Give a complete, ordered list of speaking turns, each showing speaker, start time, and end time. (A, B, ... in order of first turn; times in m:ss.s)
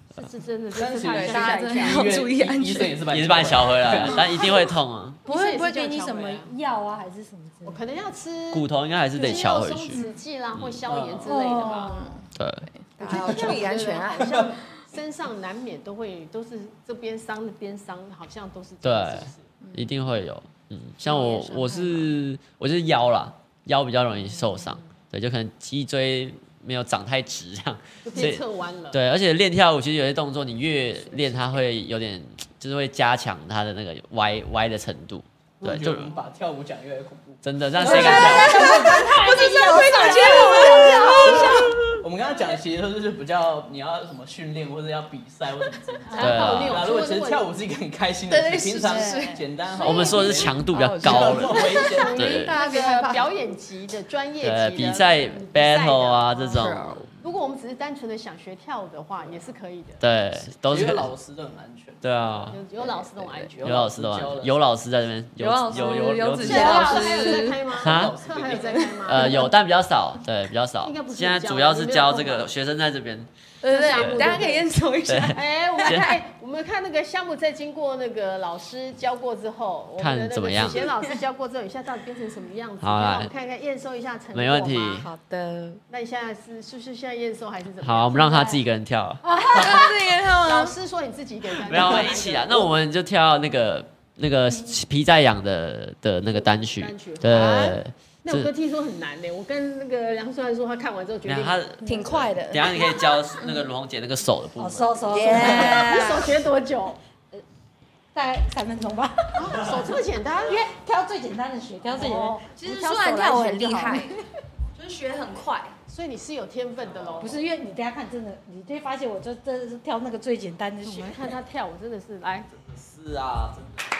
0:00.2-0:02.2 A
0:00.7-0:04.4 B
0:01.0-0:03.0 C
0:03.1-0:05.2 D
0:05.2-0:06.5 A
0:05.2-0:07.8 E
0:07.6-0:12.0 A
0:08.5-0:10.0 D
0:10.9-0:11.3 B
0:11.2-0:12.2 E
0:11.7-0:12.2 C
0:12.3-0:12.7 D
0:12.7-0:14.6 C
0:13.0-0:19.5 A
0:13.3-0:13.6 B
0:18.8-0:36.1 D
0:19.6-0:19.9 C
0:21.0-0:22.1 A
0:28.0-0:29.0 A
0:31.1-0:31.6 A
0:35.6-0:38.4 B
0:37.4-0:38.7 D
0:37.8-0:41.7 E
0:37.8-0:41.7 C
0:37.9-0:41.5 A
0:41.2-0:52.3 B
0:46.1-0:47.4 A
0:46.1-0:46.4 E
0:46.2-0:46.9 D
0:48.3-0:53.3 C
0:48.8-0:49.4 E
0:49.8-0:52.5 D
0:51.6-0:56.6 A
0:54.4-0:57.1 D
0:56.5-0:57.0 C
0:57.2-1:00.0 A
1:00.0-1:01.1 D
1:00.6-1:02.4 B
1:02.0-1:02.6 D
1:02.5-1:03.6 A
1:03.0-1:04.6 B
1:03.6-1:08.1 D
1:05.4-1:07.7 C
1:06.3-1:09.5 A
1:06.4-1:07.4 E
1:07.7-1:08.9 B
1:08.8-1:09.4 C
1:09.1-1:13.3 D
1:10.8-1:12.5 A
1:13.6-1:16.2 C
1:13.7-1:14.7 A
1:13.9-1:14.4 D
1:15.0-1:16.1 D
1:15.3-1:25.1 A
1:20.0-1:20.8 D
1:22.8-1:23.3 D
1:24.3-1:25.1 D
1:25.0-1:25.8 C
1:25.9-1:28.6 A
1:27.8-1:29.2 D
1:29.2-1:29.8 E
1:29.4-1:30.8 C
1:29.4-1:32.7 A
1:31.6-1:38.5 D
1:36.2-1:41.7 A
1:41.2-1:44.9 D
1:41.8-1:43.6 C
1:44.6-1:46.2 E
1:45.1-1:46.3 C
1:45.3-1:47.0 A
1:48.1-1:49.7 E
1:49.3-1:50.7 A
1:50.4-1:52.4 E
1:51.9-1:54.1 A
1:52.6-1:54.1 C
1:54.8-1:55.7 C
1:55.9-1:57.4 A
1:56.9-1:57.3 B
1:57.2-2:01.3 E
2:00.8-2:02.5 A
2:02.5-2:03.8 B